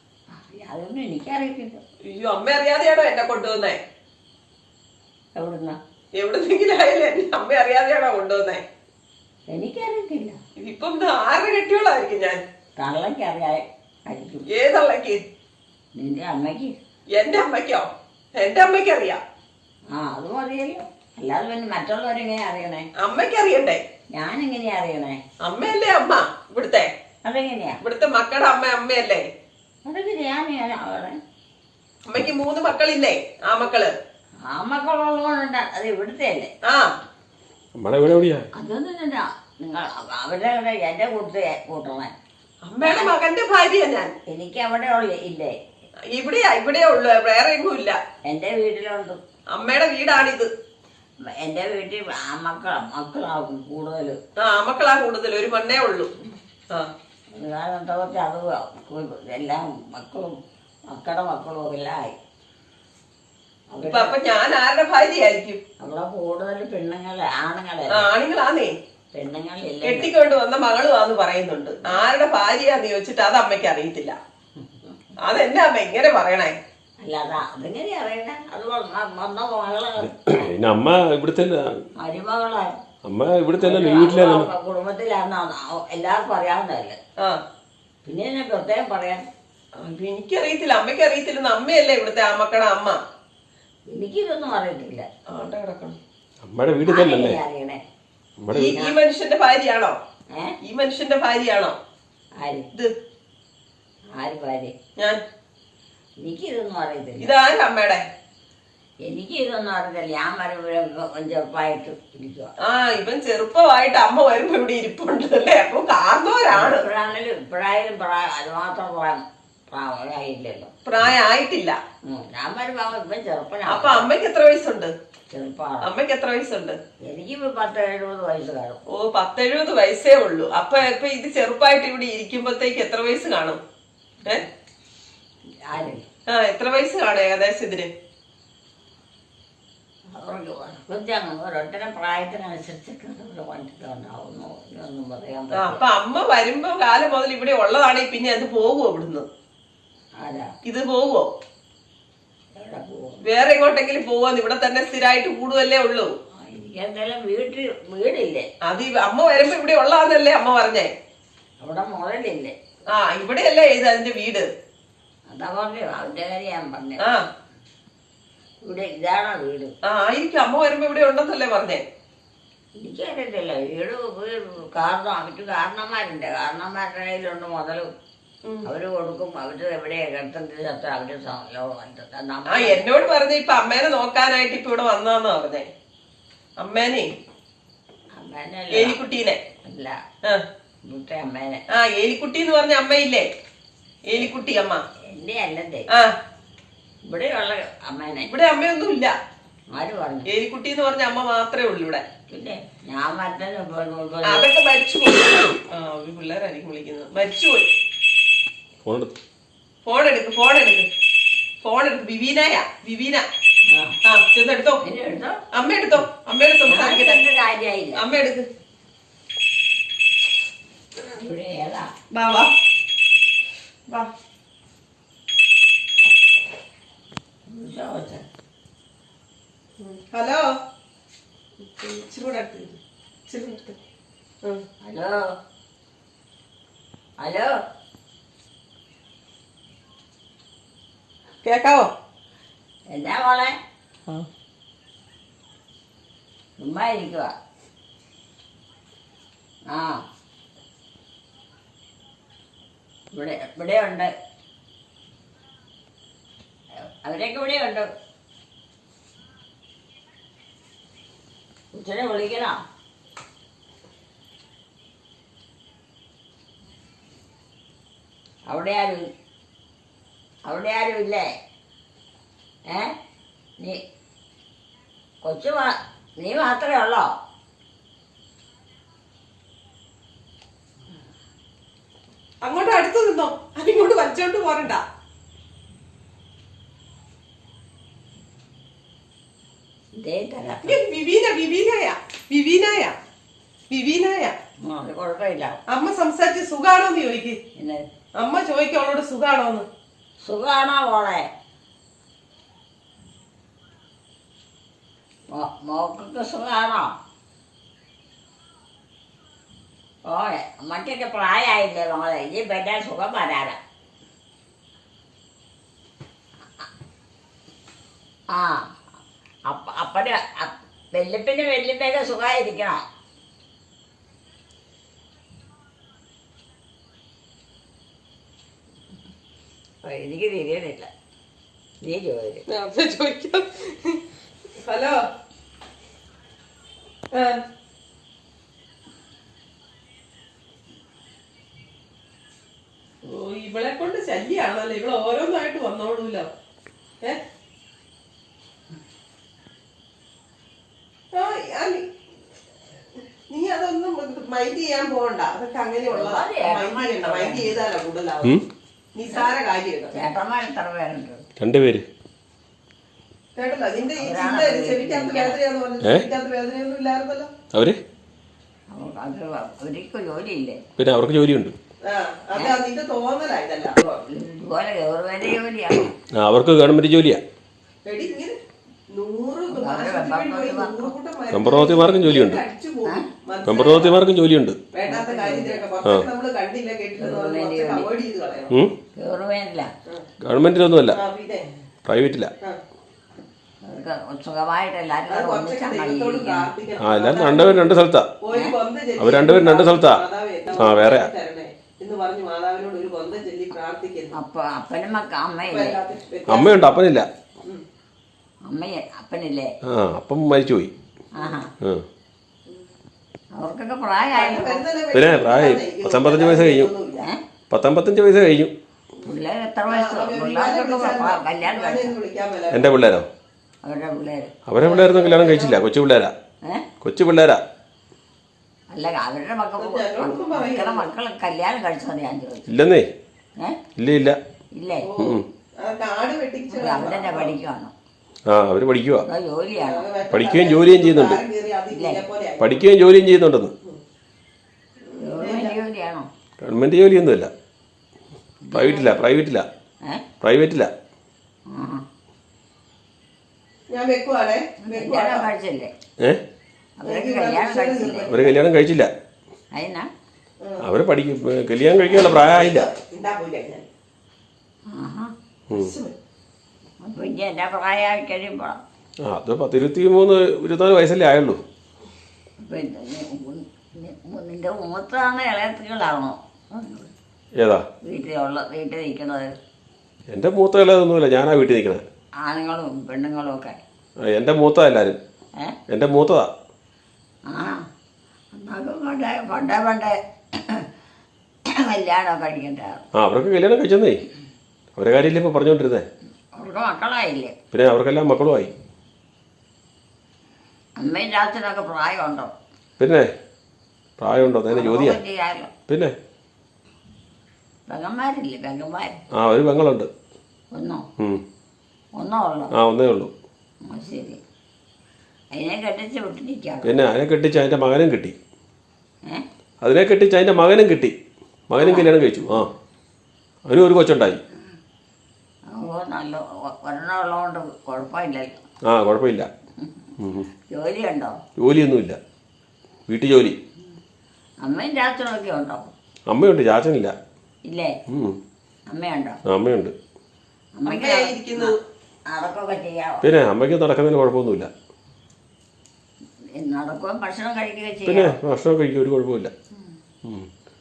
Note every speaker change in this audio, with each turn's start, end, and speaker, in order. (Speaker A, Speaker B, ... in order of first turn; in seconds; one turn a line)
Speaker A: 0.5-1.8
Speaker B: 2.1-3.8
Speaker A: 5.4-5.8
Speaker B: 6.2-8.6
Speaker A: 9.5-10.4
Speaker B: 10.6-12.4
Speaker A: 12.8-14.4
Speaker B: 14.5-15.2
Speaker A: 16.0-16.8
Speaker B: 17.1-19.2
Speaker A: 19.9-22.9
Speaker B: 23.0-23.8
Speaker A: 24.1-25.2
Speaker B: 25.4-26.9
Speaker A: 27.2-27.8
Speaker B: 27.8-29.3
Speaker A: 29.9-31.2
Speaker B: 32.1-33.9
Speaker A: 34.5-36.5
Speaker C: 37.8-38.5
Speaker A: 38.5-42.1
Speaker B: 42.6-44.1
Speaker A: 42.8-43.2
Speaker A: 44.3-45.6
Speaker B: 46.1-48.0
Speaker A: 48.3-49.2
Speaker B: 49.5-50.5
Speaker A: 51.4-54.2
Speaker B: 54.4-56.1
Speaker A: 57.4-60.3
Speaker A: 60.9-62.2
Speaker A: 63.7-64.2
Speaker B: 63.8-65.6
Speaker A: 65.8-68.1
Speaker B: 67.9-68.7
Speaker A: 69.1-70.1
Speaker B: 69.8-74.2
Speaker B: 75.2-76.5
Speaker A: 77.0-80.5
Speaker C: 80.0-81.7
Speaker A: 82.0-82.7
Speaker C: 83.1-84.5
Speaker A: 83.6-87.0
Speaker A: 88.0-89.2
Speaker B: 89.8-93.0
Speaker A: 93.9-95.1
Speaker B: 95.3-96.0
Speaker C: 96.4-97.4
Speaker A: 96.8-97.8
Speaker C: 98.4-98.8
Speaker B: 98.5-100.0
Speaker B: 100.6-101.8
Speaker A: 102.4-102.7
Speaker A: 104.2-104.7
Speaker A: 106.2-107.3
Speaker B: 107.2-108.0
Speaker A: 109.0-112.5
Speaker B: 112.6-116.9
Speaker A: 116.5-120.7
Speaker B: 120.8-121.8
Speaker A: 122.1-124.1
Speaker B: 123.7-124.9
Speaker A: 125.3-125.9
Speaker B: 125.8-126.8
Speaker A: 127.1-128.8
Speaker B: 128.9-133.6
Speaker A: 135.7-136.1
Speaker B: 136.3-137.9
Speaker A: 140.2-145.8
Speaker B: 145.6-149.3
Speaker A: 150.2-150.5
Speaker B: 150.7-151.3
Speaker A: 152.6-153.2
Speaker B: 153.2-156.1
Speaker A: 156.4-158.5
Speaker B: 158.7-160.9
Speaker A: 161.6-162.6
Speaker B: 162.9-164.5
Speaker A: 165.3-167.0
Speaker A: 168.7-169.7
Speaker B: 169.8-171.8
Speaker A: 172.8-177.9
Speaker A: 178.7-182.8
Speaker B: 182.5-185.7
Speaker B: 186.6-187.1
Speaker A: 188.2-189.0
Speaker B: 188.7-189.4
Speaker A: 189.7-190.0
Speaker A: 190.9-191.6
Speaker B: 191.7-193.3
Speaker B: 194.1-194.8
Speaker A: 195.1-195.9
Speaker A: 197.1-198.3
Speaker B: 198.3-199.1
Speaker A: 199.7-200.3
Speaker B: 200.3-202.0
Speaker A: 202.3-204.5
Speaker B: 204.2-207.7
Speaker C: 208.8-209.1
Speaker B: 209.9-210.9
Speaker B: 211.6-213.2
Speaker A: 213.7-214.0
Speaker B: 214.1-214.8
Speaker A: 214.8-215.4
Speaker B: 215.5-217.2
Speaker A: 216.7-218.0
Speaker B: 218.0-218.5
Speaker A: 221.1-221.9
Speaker B: 222.1-222.5
Speaker A: 227.5-228.2
Speaker B: 229.8-230.5
Speaker B: 231.6-233.8
Speaker A: 234.8-235.2
Speaker A: 237.2-237.5
Speaker B: 241.4-241.9
Speaker A: 242.9-243.5
Speaker A: 246.6-247.3
Speaker A: 249.7-250.0
Speaker A: 253.1-254.1
Speaker A: 256.8-257.9
Speaker A: 261.7-262.6
Speaker A: 268.5-269.1
Speaker A: 270.5-271.3
Speaker A: 272.7-272.9
Speaker A: 275.2-277.1
Speaker B: 282.4-284.8
Speaker A: 290.0-290.8
Speaker B: 290.6-293.0
Speaker B: 293.7-294.4
Speaker A: 294.6-295.6
Speaker B: 295.7-297.4
Speaker A: 297.6-297.9
Speaker B: 298.2-299.7
Speaker A: 300.2-301.3
Speaker A: 305.3-306.9
Speaker A: 310.1-313.6
Speaker A: 318.3-318.7
Speaker A: 319.5-322.8
Speaker A: 329.9-330.9
Speaker A: 331.8-332.4
Speaker B: 332.5-334.0
Speaker B: 334.6-335.0
Speaker B: 337.1-337.4
Speaker B: 343.0-346.3
Speaker B: 351.1-351.9
Speaker B: 353.3-358.4
Speaker A: 355.9-357.6
Speaker B: 358.9-360.1
Speaker A: 359.9-361.2
Speaker C: 361.4-361.9
Speaker B: 363.4-367.3
Speaker A: 364.0-365.4
Speaker C: 367.5-367.8
Speaker A: 368.7-370.6
Speaker C: 370.8-371.6
Speaker B: 371.8-373.8
Speaker A: 373.8-375.9
Speaker C: 376.2-377.2
Speaker B: 377.9-378.4
Speaker B: 378.9-384.0
Speaker A: 379.5-380.9
Speaker C: 381.3-382.4
Speaker C: 383.5-384.6
Speaker B: 384.7-388.5
Speaker A: 384.9-385.6
Speaker A: 387.0-387.9
Speaker A: 389.0-389.7
Speaker C: 390.2-391.0
Speaker B: 390.9-391.5
Speaker C: 391.9-392.3
Speaker A: 393.6-396.5
Speaker B: 395.1-404.1
Speaker C: 396.8-398.1
Speaker C: 399.0-400.0
Speaker C: 400.6-401.1
Speaker A: 404.2-405.8
Speaker B: 405.5-406.6
Speaker C: 406.3-407.1
Speaker A: 408.5-409.5
Speaker C: 409.7-410.7
Speaker A: 411.2-411.5
Speaker A: 413.4-414.6
Speaker B: 414.1-417.1
Speaker C: 414.9-416.7
Speaker C: 417.5-418.5
Speaker A: 419.0-421.9
Speaker B: 419.7-422.8
Speaker C: 422.5-423.1
Speaker A: 423.6-424.3
Speaker C: 424.5-426.1
Speaker B: 424.6-425.6
Speaker C: 426.8-427.4
Speaker A: 428.7-432.5
Speaker B: 429.6-430.9
Speaker C: 432.5-432.9
Speaker C: 433.8-434.2
Speaker A: 434.6-434.9
Speaker B: 434.9-437.4
Speaker A: 436.5-437.7
Speaker C: 438.3-439.1
Speaker A: 439.1-439.9
Speaker B: 439.6-442.6
Speaker C: 440.1-441.2
Speaker A: 441.7-442.0
Speaker C: 442.4-443.5
Speaker B: 444.9-445.6
Speaker A: 445.0-446.1
Speaker C: 446.4-447.3
Speaker A: 448.4-449.0
Speaker C: 448.5-449.5
Speaker C: 450.2-450.7
Speaker A: 451.5-451.8
Speaker B: 453.7-455.3
Speaker A: 454.7-455.7
Speaker A: 456.8-458.2
Speaker B: 456.8-458.4
Speaker C: 458.1-458.9
Speaker A: 459.5-459.9
Speaker C: 460.6-462.7
Speaker B: 461.9-463.7
Speaker A: 464.7-465.1
Speaker B: 465.5-465.9
Speaker A: 466.8-468.6
Speaker C: 469.1-471.4
Speaker A: 472.5-476.9
Speaker C: 477.4-477.6
Speaker A: 477.9-479.3
Speaker C: 480.1-481.8
Speaker A: 482.2-483.6
Speaker C: 484.1-485.0
Speaker C: 485.7-486.3
Speaker A: 487.3-487.6
Speaker A: 488.3-490.7
Speaker A: 491.6-492.8
Speaker C: 493.0-494.0
Speaker C: 494.8-495.9
Speaker A: 496.4-497.4
Speaker C: 497.5-498.5
Speaker A: 500.8-502.3
Speaker C: 502.8-503.1
Speaker C: 504.0-505.0
Speaker A: 504.2-505.5
Speaker A: 507.7-509.0
Speaker C: 509.2-509.9
Speaker A: 510.5-510.9
Speaker A: 512.0-512.5
Speaker C: 512.5-513.1
Speaker A: 513.6-514.2
Speaker A: 515.3-516.8
Speaker C: 516.6-518.2
Speaker C: 519.6-521.0
Speaker C: 521.5-522.5
Speaker A: 521.6-522.4
Speaker C: 523.5-524.2
Speaker A: 525.5-528.4
Speaker C: 528.7-529.3
Speaker C: 530.0-530.3
Speaker A: 530.5-531.2
Speaker C: 531.4-532.0
Speaker C: 532.9-533.4
Speaker A: 534.4-535.7
Speaker C: 536.1-536.9
Speaker A: 537.5-537.7
Speaker C: 537.9-538.2
Speaker A: 538.7-539.2
Speaker C: 539.3-539.7
Speaker A: 540.6-541.5
Speaker B: 540.7-541.6
Speaker A: 542.1-543.0
Speaker C: 543.0-544.5
Speaker A: 546.4-548.2
Speaker C: 547.9-549.3